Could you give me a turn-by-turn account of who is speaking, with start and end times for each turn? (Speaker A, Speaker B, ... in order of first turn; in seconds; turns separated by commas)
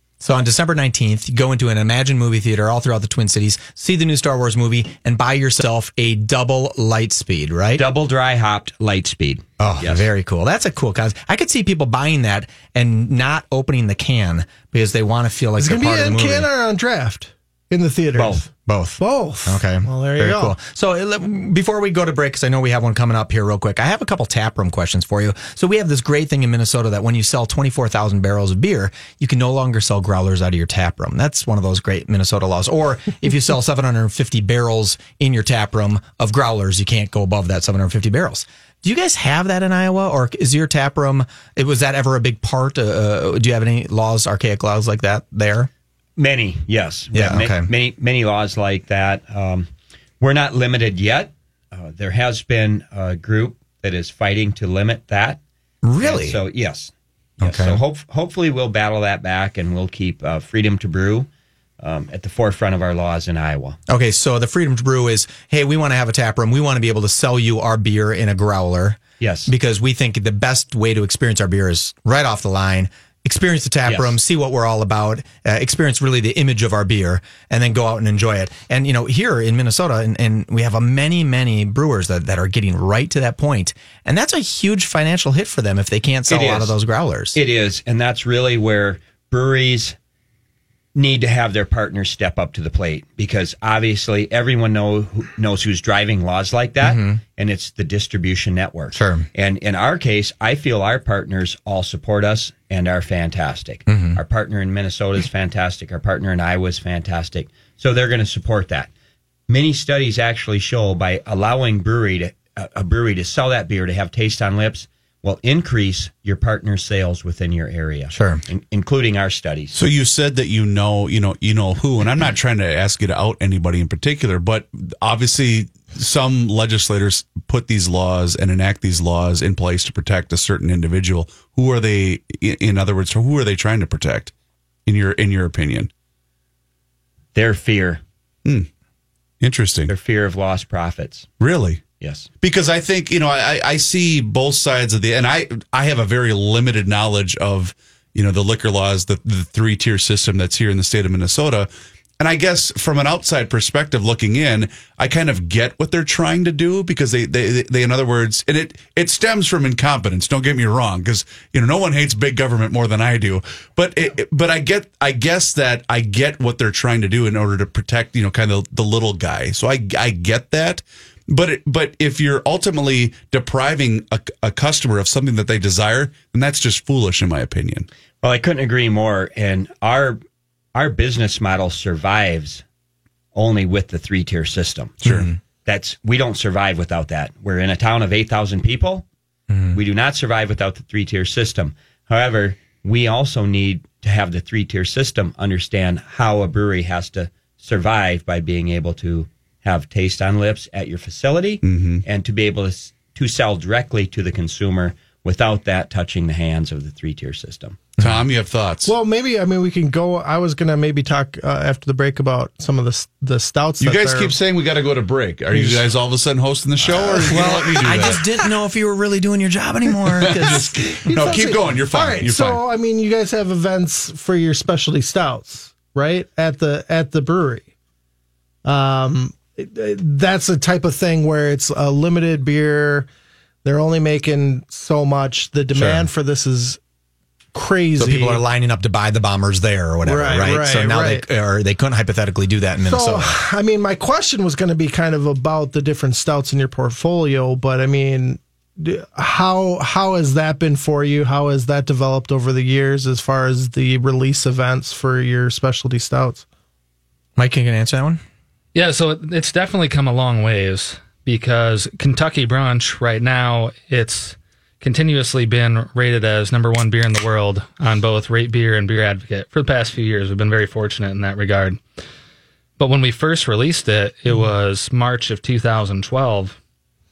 Speaker A: 0.2-7.8, Speaker B: 7.8-10.1, Speaker A: 9.6-16.5, Speaker C: 15.6-20.6, Speaker B: 18.1-18.4, Speaker A: 18.7-45.7, Speaker B: 46.2-49.7, Speaker A: 47.1-47.7, Speaker B: 50.2-55.4, Speaker A: 55.8-56.4, Speaker B: 56.0-61.3, Speaker A: 57.4-57.8, Speaker B: 61.8-63.8, Speaker A: 63.9-87.4, Speaker B: 69.2-69.5, Speaker B: 73.9-74.2, Speaker B: 86.3-86.8, Speaker B: 87.3-90.0, Speaker B: 91.0-108.9, Speaker A: 96.8-97.2, Speaker A: 98.9-99.3, Speaker A: 103.9-104.2, Speaker B: 109.5-119.8, Speaker A: 118.1-118.4, Speaker D: 119.7-134.3, Speaker D: 134.9-135.9, Speaker B: 137.3-138.0, Speaker D: 139.4-139.9, Speaker B: 139.9-141.3, Speaker D: 141.4-141.8, Speaker B: 142.0-142.3, Speaker D: 142.4-177.9, Speaker B: 178.2-180.2, Speaker B: 180.8-182.6, Speaker B: 183.3-185.0, Speaker D: 185.0-185.3, Speaker A: 185.1-185.4, Speaker B: 185.7-189.1, Speaker A: 189.5-189.8, Speaker B: 189.7-207.8, Speaker D: 201.6-202.0, Speaker D: 208.0-208.9, Speaker C: 208.9-214.4, Speaker D: 213.8-218.2, Speaker C: 215.5-215.9, Speaker C: 217.0-218.1, Speaker A: 217.3-220.7, Speaker D: 220.2-222.6, Speaker C: 220.5-227.7, Speaker C: 228.7-233.1, Speaker C: 233.6-236.8, Speaker A: 235.7-236.1, Speaker C: 237.5-238.4, Speaker A: 238.0-243.4, Speaker C: 240.1-241.2, Speaker C: 242.8-256.4, Speaker A: 257.4-258.2, Speaker E: 258.7-271.8, Speaker E: 272.8-276.6